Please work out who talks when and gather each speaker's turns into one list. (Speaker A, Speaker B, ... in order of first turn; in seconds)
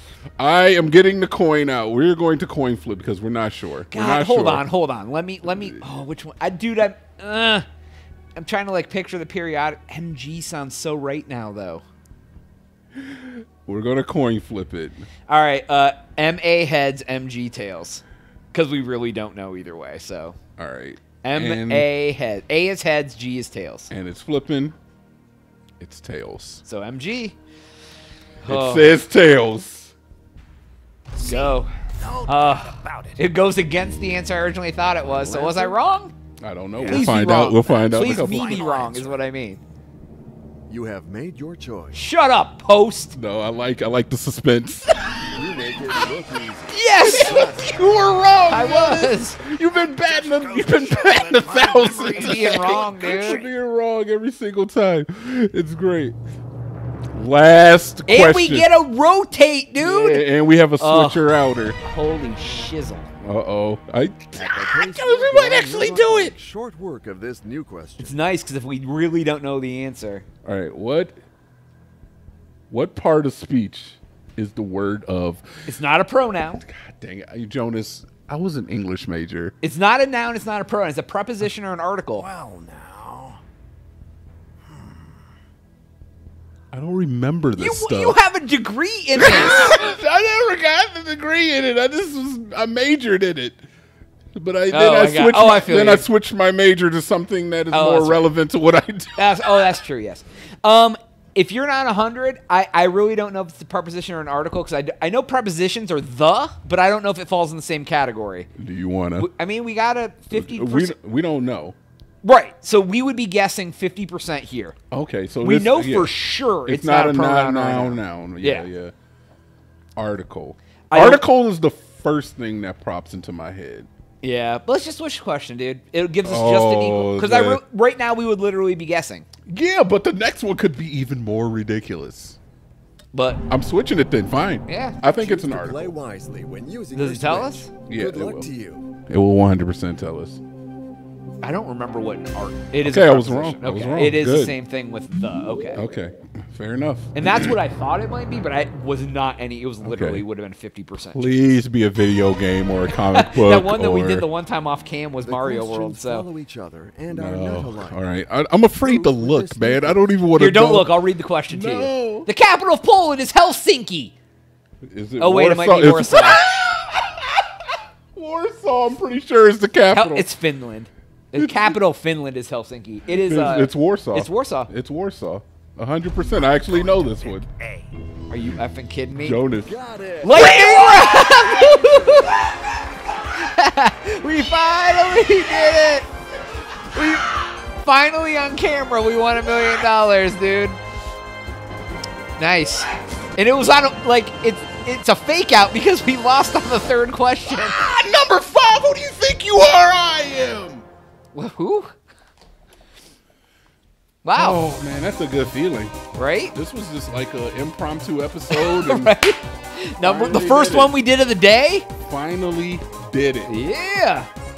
Speaker A: 0.4-4.7, 5.5-5.8, 13.0-15.1, 20.6-21.9, 23.9-24.8, 25.8-26.6, 28.4-29.9, 36.4-38.7, 43.1-45.0, 47.0-56.2, 57.1-58.7, 59.8-61.8, 63.2-64.5, 70.5-71.2, 72.7-75.7, 76.6-79.5, 86.7-88.2, 89.2-93.7, 94.3-99.3, 108.6-109.3, 110.3-111.8, 114.9-118.9, 120.0-123.9, 126.2-127.6, 129.5-132.4, 133.5-136.0, 137.9-138.5, 139.1-140.4, 142.8-144.6, 145.7-147.6, 149.8-150.2, 151.1-154.3, 157.1-162.3, 164.8-170.3, 171.3-171.8, 173.1-177.5, 179.2-179.7, 180.3-180.7, 197.5-200.9, 204.3-206.0, 206.5-209.1, 210.0-211.0, 212.0-213.5
Speaker B: 3.9-7.7, 8.4-11.8, 15.3-20.4, 21.2-23.9, 26.6-27.4, 28.4-29.0, 31.2-31.7, 32.3-36.1, 36.8-39.6, 41.9-43.2, 46.7-47.6, 48.5-49.4, 52.1-53.5, 58.1-60.3, 60.8-61.3, 61.8-63.1, 64.5-66.4, 68.0-70.3, 75.7-76.6, 79.6-82.3, 87.6-89.8, 94.7-96.1, 97.7-98.2, 99.2-108.5, 109.2-111.0, 112.2-114.8, 115.4-118.7, 120.9-121.2, 124.2-129.3, 133.1-133.4, 134.7-135.0, 136.9-137.7, 141.4-145.8, 147.2-151.3, 153.0-156.3, 160.3-164.1, 165.2-166.4, 169.9-174.7, 178.3-179.4, 180.2-182.4, 183.2-186.1, 186.9-190.8, 192.4-197.8, 201.3-201.9, 204.2-204.6, 206.1-206.6, 208.5-211.9, 213.5-214.3
Speaker C: 31.1-33.2, 36.8-37.1, 37.7-39.2, 50.1-53.5, 82.2-83.4, 84.7-85.2, 176.3-177.9
Speaker D: 35.2-35.8, 40.7-42.0, 45.3-47.8, 64.3-68.2, 135.2-138.9, 155.2-158.0, 158.8-160.2, 179.6-182.4